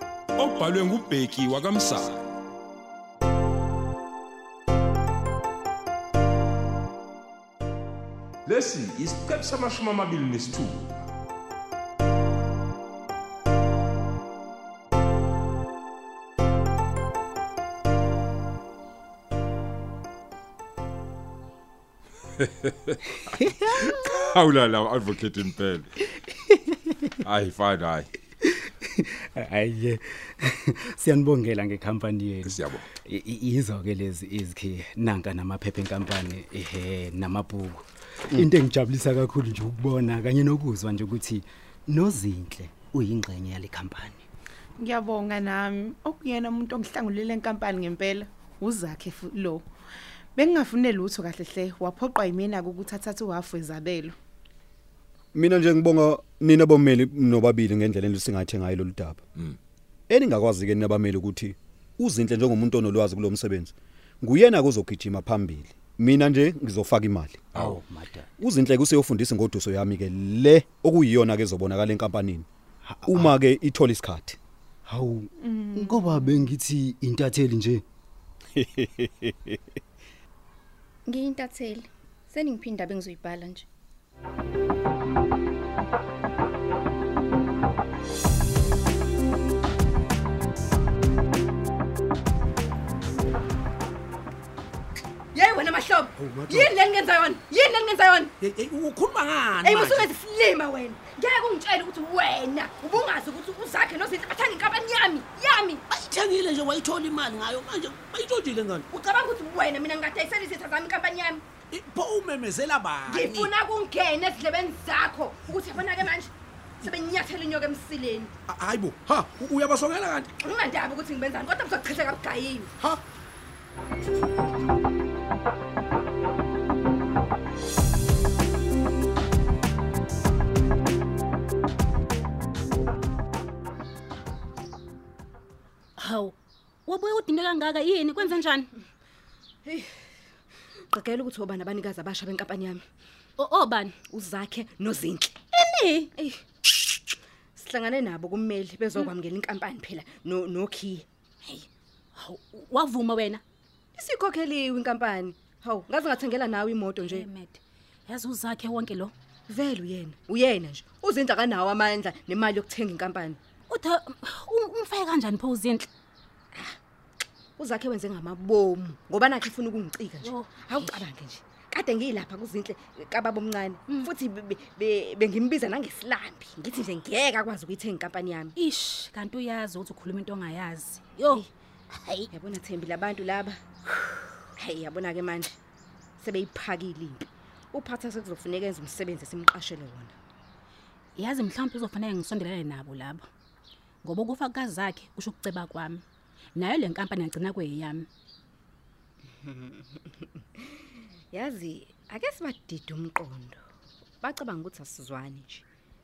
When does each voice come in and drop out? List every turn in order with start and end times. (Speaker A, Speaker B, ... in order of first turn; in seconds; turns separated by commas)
Speaker A: 0.3-2.3, Speaker A: 8.4-11.0, Speaker A: 22.4-22.8, Speaker A: 24.1-25.9, Speaker A: 27.2-28.1, Speaker B: 29.4-30.0, Speaker B: 30.9-32.5, Speaker A: 32.5-32.8, Speaker B: 33.1-37.7, Speaker B: 38.3-44.2, Speaker C: 44.8-49.6, Speaker C: 50.3-54.1, Speaker D: 55.3-59.2, Speaker D: 60.1-67.7, Speaker B: 67.6-68.0, Speaker D: 68.4-72.5, Speaker B: 73.0-73.3, Speaker D: 73.0-74.4, Speaker B: 74.9-75.1, Speaker C: 75.4-76.4, Speaker B: 75.7-77.8, Speaker D: 78.5-79.3, Speaker E: 81.0-83.7, Speaker F: 95.3-98.3, Speaker G: 96.2-96.7, Speaker G: 98.4-100.1, Speaker F: 99.6-105.8, Speaker G: 105.9-108.8, Speaker F: 108.9-111.4, Speaker G: 111.7-113.5, Speaker F: 113.0-118.3, Speaker G: 118.5-120.3, Speaker F: 120.4-122.7, Speaker H: 136.0-138.7, Speaker F: 139.6-139.9, Speaker F: 140.9-142.8, Speaker H: 143.4-143.9, Speaker F: 144.1-145.4, Speaker H: 145.5-146.1, Speaker F: 146.1-151.7, Speaker H: 152.2-153.4, Speaker F: 153.9-157.3, Speaker H: 157.0-159.1, Speaker F: 159.5-163.4, Speaker H: 163.7-165.9, Speaker F: 167.6-178.5, Speaker H: 170.2-171.1, Speaker H: 178.6-182.3, Speaker F: 182.3-183.9, Speaker F: 184.6-185.6, Speaker F: 186.2-190.1, Speaker H: 191.2-193.3, Speaker H: 194.0-196.0, Speaker H: 196.6-198.1, Speaker F: 199.4-200.6, Speaker F: 201.3-203.6, Speaker F: 204.2-205.6